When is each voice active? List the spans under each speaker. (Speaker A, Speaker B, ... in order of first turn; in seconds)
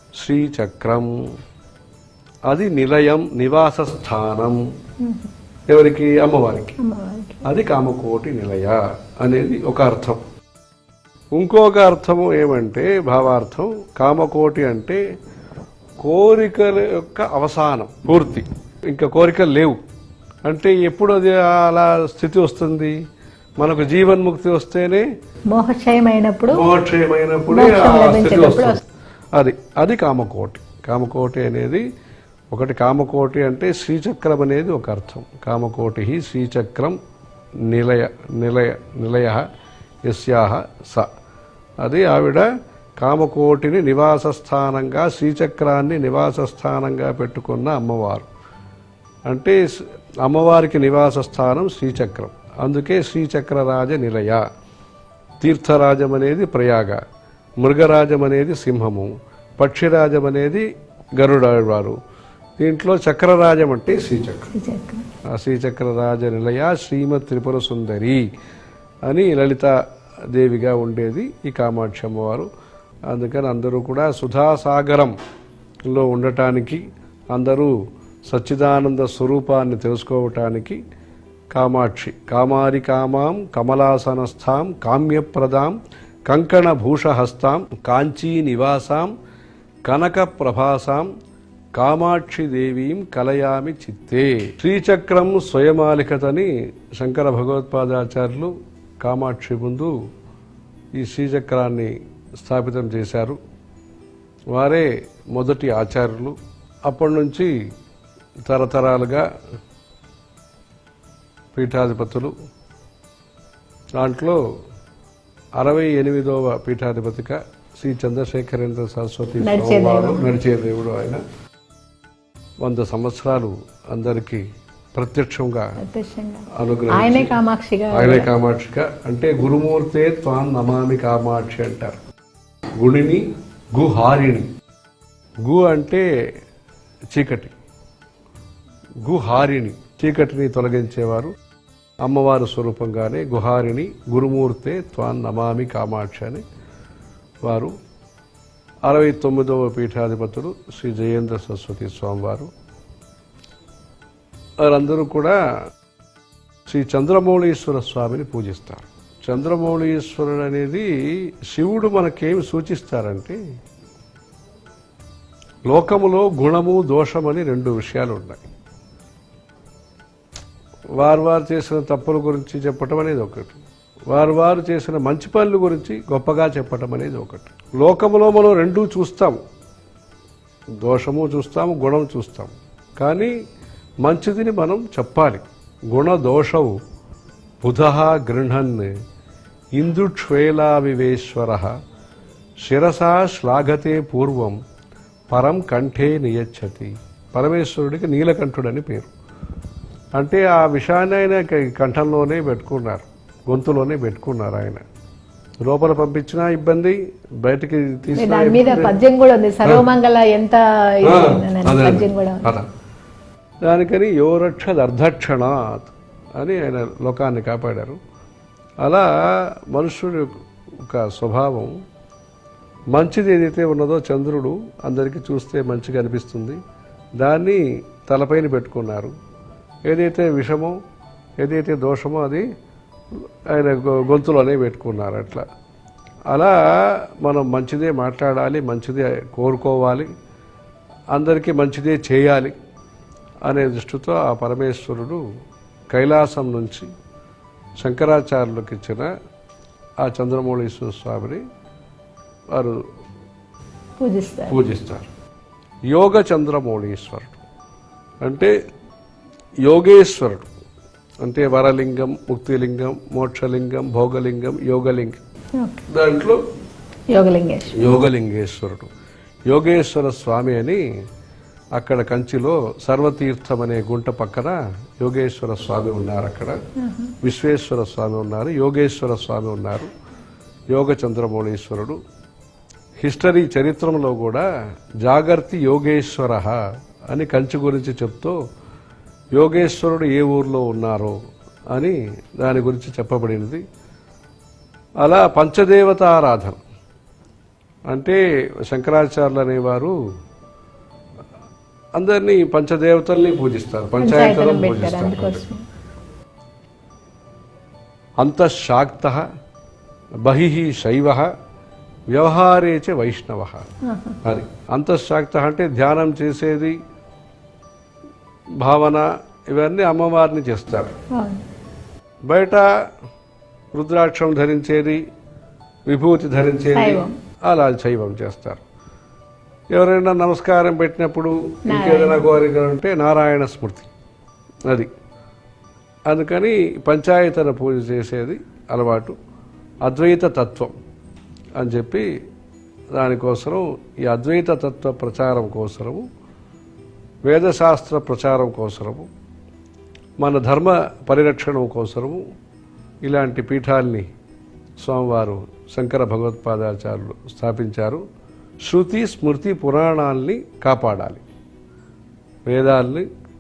Speaker A: 0.2-1.1, 2.5-4.6, 5.7-6.7, 7.5-10.2, 11.3-15.0, 16.0-19.8, 20.4-22.9, 23.6-25.0, 26.5-28.8, 29.4-31.8, 32.5-37.0, 37.7-39.4, 40.1-41.1, 41.8-42.5, 43.0-48.3, 49.3-54.4, 55.4-57.0, 57.6-60.6, 61.2-62.0, 62.6-64.5, 65.3-68.2, 69.1-69.7, 70.3-72.5, 73.1-75.1, 75.9-77.7, 78.3-80.8, 81.5-85.8, 86.3-89.1, 89.8-91.1, 91.8-99.9, 101.0-103.4, 104.5-106.3, 106.9-107.5, 108.5-109.2, 111.5-112.3, 114.0-114.4, 115.6-121.2, 122.6-124.4, 124.9-125.7, 126.5-127.3, 127.9-132.0, 132.8-133.2, 133.7-134.5, 135.4-136.0, 137.1-137.5, 139.0-141.3, 142.0-146.4, 147.4-147.7, 148.8-152.5, 154.6-155.4, 156.7-163.4, 165.7-168.4, 171.0-179.4, 180.8-183.3, 184.0-186.8, 187.6-188.9, 189.8-191.7, 192.6-194.6, 195.3-199.1, 200.2-204.8, 205.7-208.9, 211.0-212.7, 213.7-218.0, 218.8-221.7, 222.9-226.6, 227.2-229.1, 229.9-230.7, 231.4-232.4, 233.5-235.4, 236.3-240.1, 241.1-242.5, 243.4-245.2, 245.9-246.9, 247.8-249.1, 250.0-251.4, 252.5-252.8, 254.5-255.1, 255.9-257.4, 258.2-258.5, 259.6-260.5, 261.2-265.2, 265.9-266.4, 267.7-268.9, 269.5-270.8, 271.8-276.6, 277.2-279.9, 280.7-282.0, 283.0-284.4, 285.0-286.6, 287.1-288.4, 289.4-291.1, 291.7-293.6, 295.0-296.6, 297.9-299.9, 302.0-305.4, 308.2-309.2, 310.2-311.3, 312.1-313.7, 314.2-316.8, 318.6-320.9, 322.3-322.7, 323.7-325.0, 325.9-328.6, 329.7-333.9, 336.1-339.1, 339.9-340.7, 341.6-342.1, 342.9-346.0, 347.2-349.1, 350.2-352.2, 353.0-354.1, 354.8-358.0, 358.6-361.2, 362.5-363.1
Speaker B: 5.0-5.3, 6.8-7.5, 25.5-26.6, 27.5-28.8, 64.5-65.0, 119.4-120.3, 125.8-128.3, 208.2-212.5, 254.0-254.6, 265.6-265.8, 267.1-267.9, 276.8-277.1, 304.0-305.6, 313.8-314.2, 321.1-321.4, 326.7-327.1, 331.7-332.2